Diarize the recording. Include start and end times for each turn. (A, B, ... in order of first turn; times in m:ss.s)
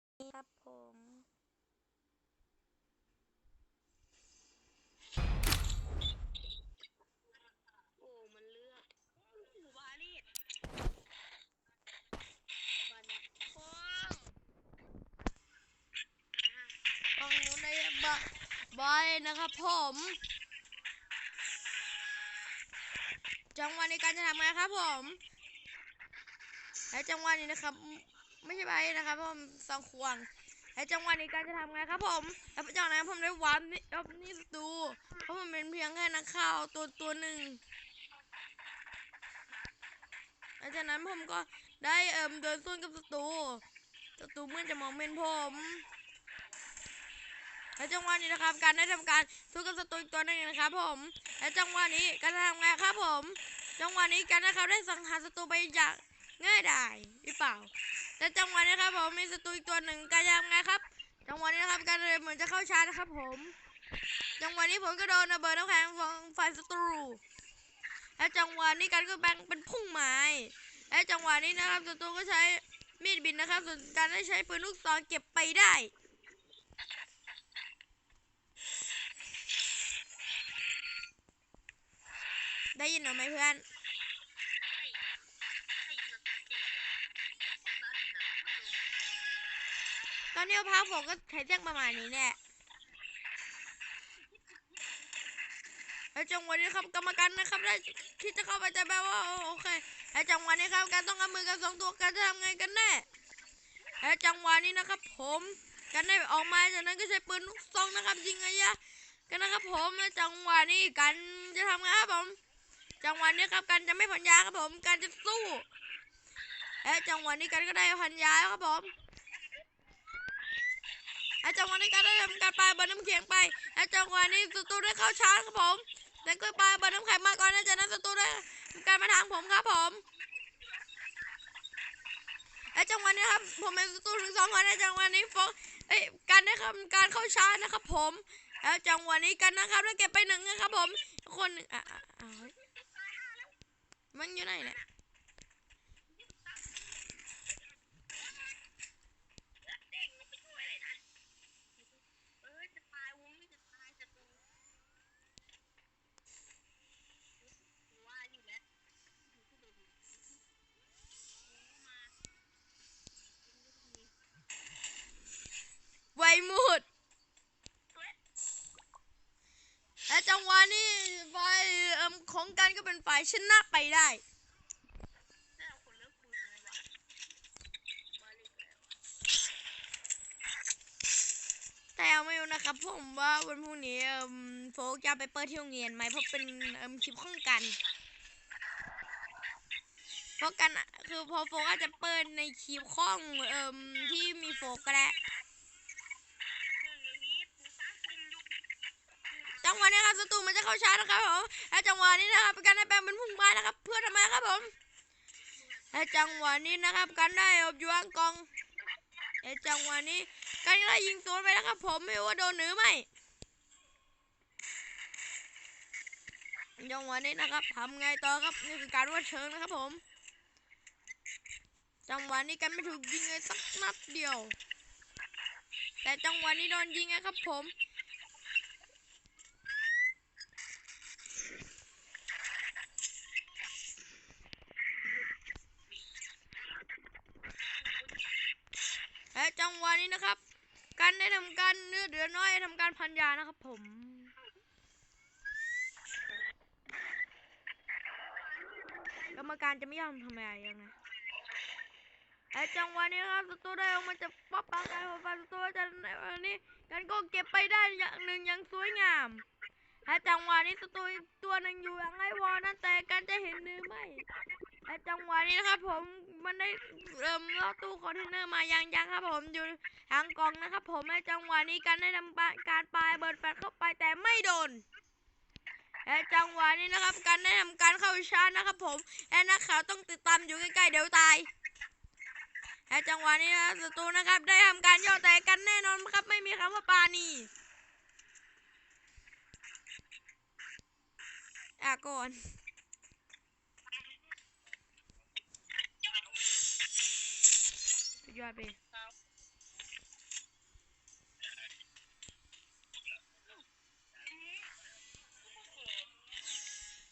0:00.2-0:01.2 A
0:08.0-0:10.3 B
0:12.9-0:14.3 B
0:16.4-0:16.8 B
0:17.2-0:20.2 A
0:23.5-0:25.2 A
0:26.9-0:37.6 A
0:40.6-0:43.6 A
0:44.2-0:45.8 A
0:47.8-1:03.5 A
1:04.4-1:07.2 A
1:08.2-1:15.9 A
1:22.7-1:23.6 A
1:24.6-1:25.0 B
1:25.7-1:27.0 B
1:27.6-1:28.9 B
1:30.3-1:32.4 A
1:34.4-1:34.8 B
1:36.1-1:43.0 A
1:44.0-1:48.8 A
1:49.3-1:52.4 A
1:53.0-1:55.7 A
1:56.8-1:58.9 A
2:01.4-2:10.0 A
2:12.7-2:22.5 A
2:22.6-2:23.5 B
2:24.1-2:24.8 A
2:24.6-2:24.9 B
2:26.1-2:27.0 B
2:29.6-2:31.0 B
2:32.4-2:34.5 B
2:37.9-2:38.6 B
2:39.4-2:40.1 B
2:41.4-2:42.1 B
2:43.4-2:44.2 B
2:46.1-2:46.8 A
2:50.1-2:54.2 A
2:55.6-2:56.9 B
2:58.1-2:59.0 B
3:01.9-3:07.8 A
3:10.4-3:15.1 A
3:16.7-3:18.6 B
3:19.3-3:20.1 B
3:19.6-3:24.7 A
3:25.9-3:28.5 A
3:29.4-3:33.1 A
3:36.8-3:40.0 A
3:42.1-3:44.6 A
3:46.0-3:47.7 A
3:59.3-4:00.4 A
4:01.0-4:04.3 A
4:08.6-4:09.3 B
4:09.3-4:10.9 A
4:12.5-4:19.4 A
4:20.0-4:24.2 A
4:24.8-4:34.8 A
4:36.0-4:41.5 A
4:42.9-4:47.5 A
4:51.8-4:52.5 A
4:58.2-4:58.8 A
5:04.3-5:04.7 B
5:05.6-5:06.2 B